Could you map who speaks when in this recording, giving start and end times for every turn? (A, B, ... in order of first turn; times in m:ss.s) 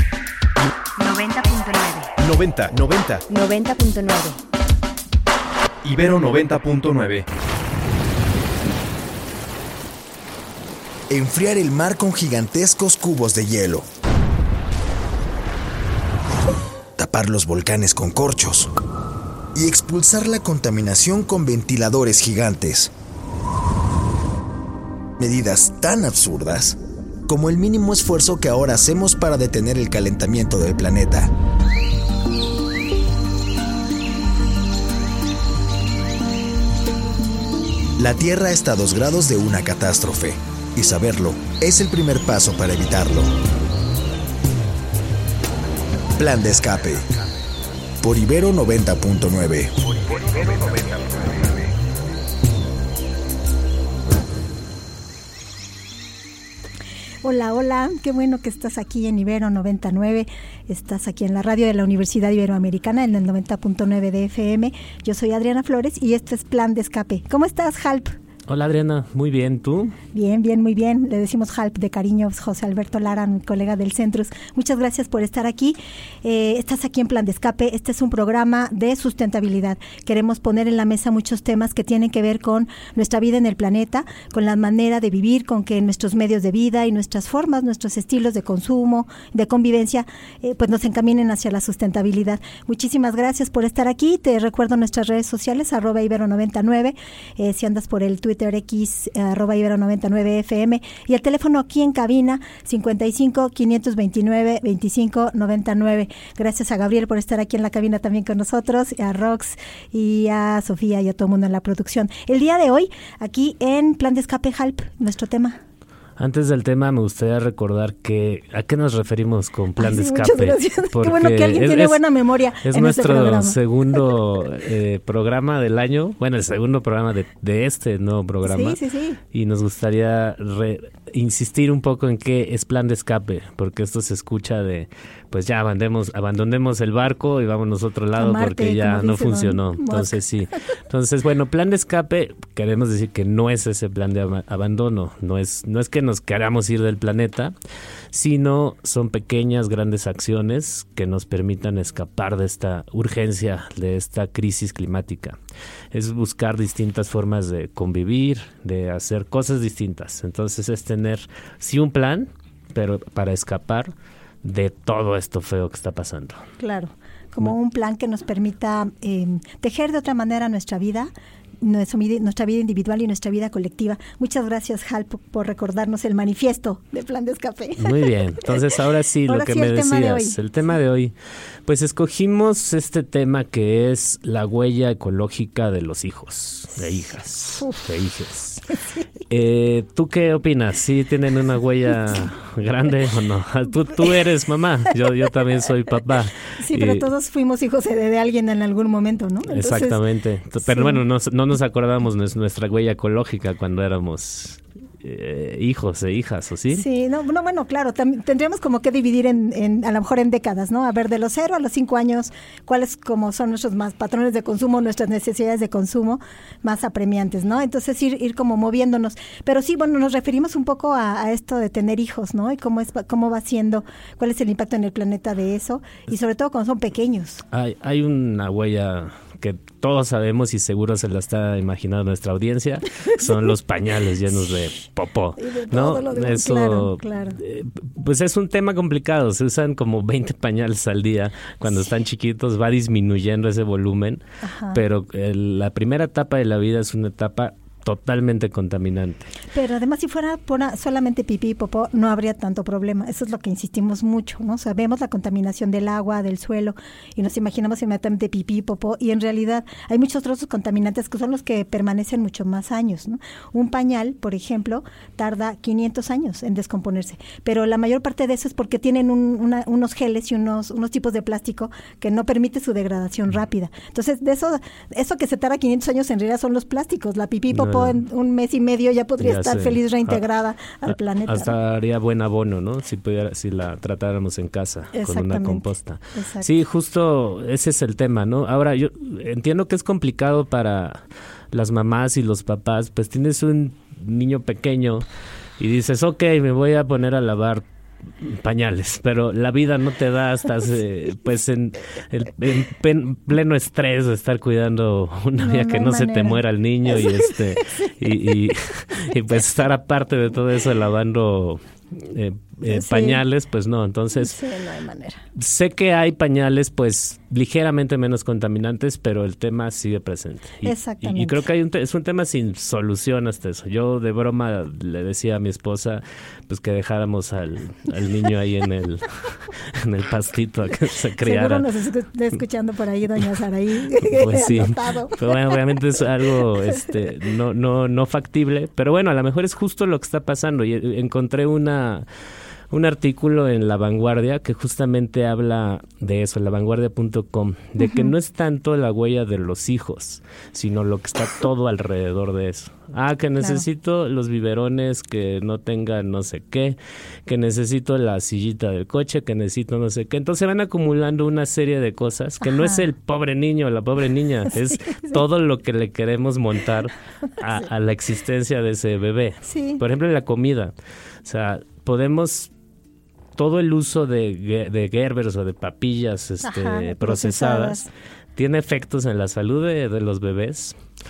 0:01.0-0:02.1 A
0:02.2-0:03.2 B
0:03.3-0:04.4 A
0:05.8-0:07.2 B
0:11.1-0:13.9 C
0:17.0-0:18.7 C
0:19.5-0:22.9 C
0:25.2-0:31.3 C
0:38.0-0:43.3 C
0:46.2-0:47.0 C
0:48.0-0:49.7 C
0:50.1-0:51.4 B
0:57.2-1:08.1 D
1:08.5-1:10.0 E
1:10.1-1:55.6 D
1:56.2-2:02.0 E
1:59.8-2:03.6 D
2:02.6-2:08.8 E
2:08.4-2:09.2 D
2:09.3-2:27.5 E
2:18.2-2:20.2 D
2:28.1-2:35.4 E
2:35.9-2:46.4 E
2:46.6-2:51.1 D
2:51.6-2:58.7 D
2:57.8-3:01.1 E
2:59.3-3:00.4 D
3:01.6-3:08.7 E
3:07.6-3:07.8 D
3:08.7-3:09.0 D
3:09.3-3:17.1 E
3:16.6-3:20.0 D
3:19.5-3:26.8 E
3:20.6-3:21.0 D
3:26.7-3:47.4 D
3:47.5-4:09.3 E
3:55.4-3:57.4 D
4:04.4-4:04.8 D
4:09.5-4:41.5 D
4:37.5-4:38.0 E
4:39.2-4:40.2 E
4:40.9-4:55.0 E
4:44.9-4:46.5 D
4:55.6-4:57.6 E
4:58.2-5:14.4 E
5:05.4-5:07.9 D
5:12.7-5:13.2 D
5:14.2-5:15.2 D
5:15.3-5:31.6 E
5:20.6-5:21.4 D
5:31.2-5:35.4 D
5:34.1-5:42.0 E
5:42.7-6:10.7 E
5:47.8-5:48.1 D
6:02.4-6:02.8 D
6:04.7-6:05.2 D
6:09.4-6:09.8 D
6:11.2-6:12.5 E
6:13.4-6:20.8 E
6:16.4-6:17.9 D